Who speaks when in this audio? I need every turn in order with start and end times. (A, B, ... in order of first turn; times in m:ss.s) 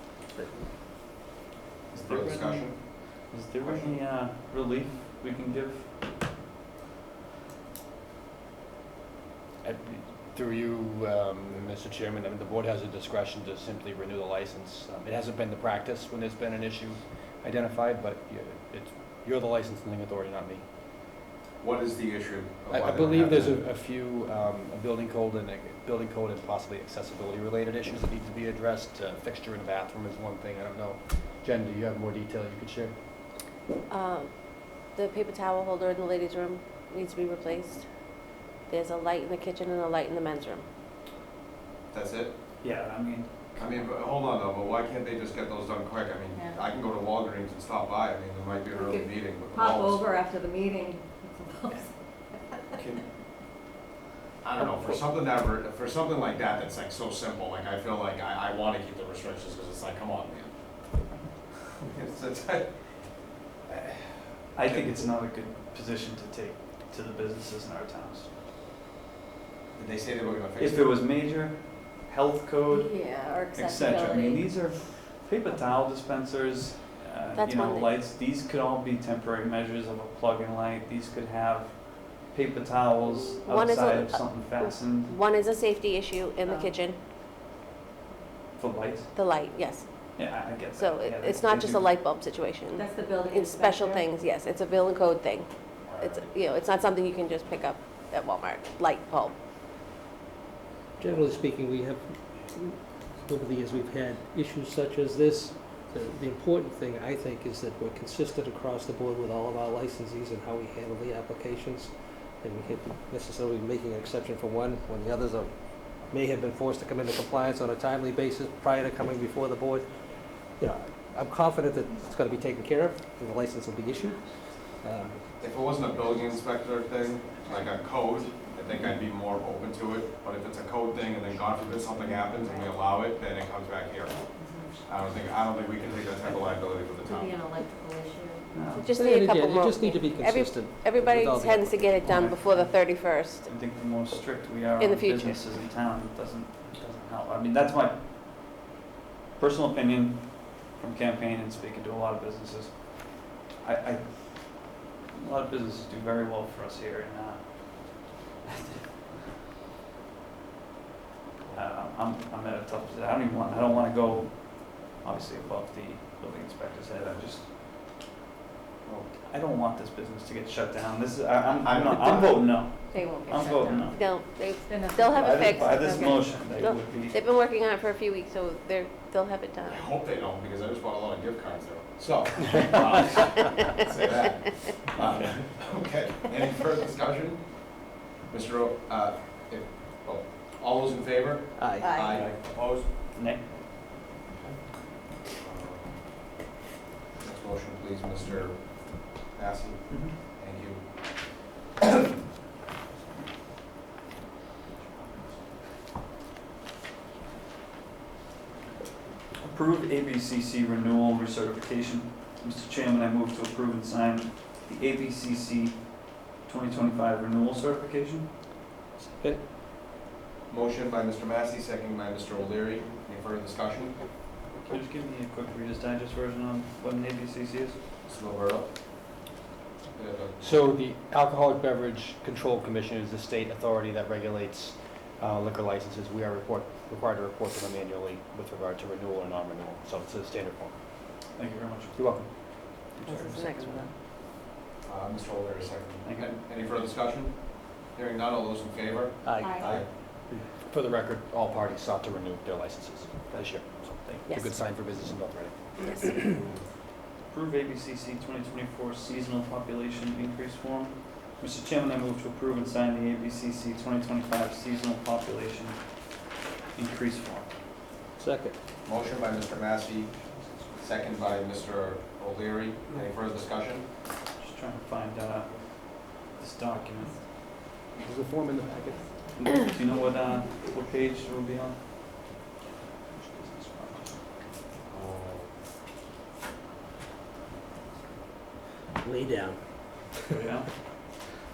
0:01.9-0:06.1 A
0:01.9-0:04.0 B
0:09.6-0:20.6 C
0:21.6-0:23.6 B
0:22.7-0:33.0 C
0:33.9-0:37.8 D
0:38.7-0:40.6 D
0:41.9-0:42.3 B
0:42.6-0:43.9 A
0:43.6-0:50.0 B
0:46.3-0:46.6 E
0:48.7-0:52.7 E
0:52.7-0:53.0 B
0:54.4-1:00.9 B
1:01.8-1:03.1 B
1:03.6-1:05.1 B
1:04.5-1:08.3 A
1:09.7-1:11.0 B
1:10.6-1:13.0 A
1:12.7-1:14.6 E
1:13.0-1:13.3 D
1:13.5-1:25.1 A
1:17.4-1:17.9 D
1:23.4-1:27.0 D
1:26.4-1:26.8 E
1:28.6-1:29.2 A
1:29.1-1:30.1 D
1:30.2-1:31.9 A
1:30.8-1:39.3 D
1:32.7-1:34.1 E
1:35.9-1:36.2 B
1:41.0-2:05.2 F
2:05.2-2:17.4 B
2:12.3-2:12.7 E
2:14.3-2:14.8 E
2:17.0-2:18.6 E
2:18.5-2:18.9 A
2:18.7-2:23.5 D
2:18.9-2:22.2 F
2:22.0-2:28.1 A
2:24.8-2:25.4 D
2:29.4-2:38.9 A
2:41.5-2:47.5 A
2:43.5-2:43.8 B
2:49.1-2:54.2 A
2:51.6-2:52.6 B
2:52.9-2:55.9 E
2:53.9-2:59.8 D
2:55.1-2:57.2 A
2:59.6-3:12.9 B
3:05.0-3:05.3 A
3:11.6-3:11.9 F
3:11.8-3:12.2 D
3:13.1-3:13.5 A
3:15.4-3:16.1 B
3:17.2-3:21.4 B
3:19.9-3:20.2 A
3:29.4-3:38.3 A
3:39.1-3:39.4 F
3:40.5-3:44.0 B
3:44.6-3:47.8 A
3:48.0-3:48.7 B
3:49.9-3:50.6 B
3:50.4-4:00.7 C
4:01.3-4:04.0 A
4:02.0-4:02.3 C
4:03.0-4:03.9 D
4:04.8-4:09.9 B
4:06.0-4:06.3 A
4:09.2-4:10.4 F
4:09.4-4:09.7 E
4:10.6-4:16.4 C
4:15.8-4:16.1 D
4:17.3-4:27.5 A
4:28.2-4:28.5 F
4:28.8-4:33.9 B
4:34.4-4:37.3 A
4:37.9-4:39.2 C
4:39.3-4:42.4 A
4:43.0-4:44.4 A
4:44.9-4:45.5 B
4:49.0-4:50.4 F
4:50.3-4:51.2 A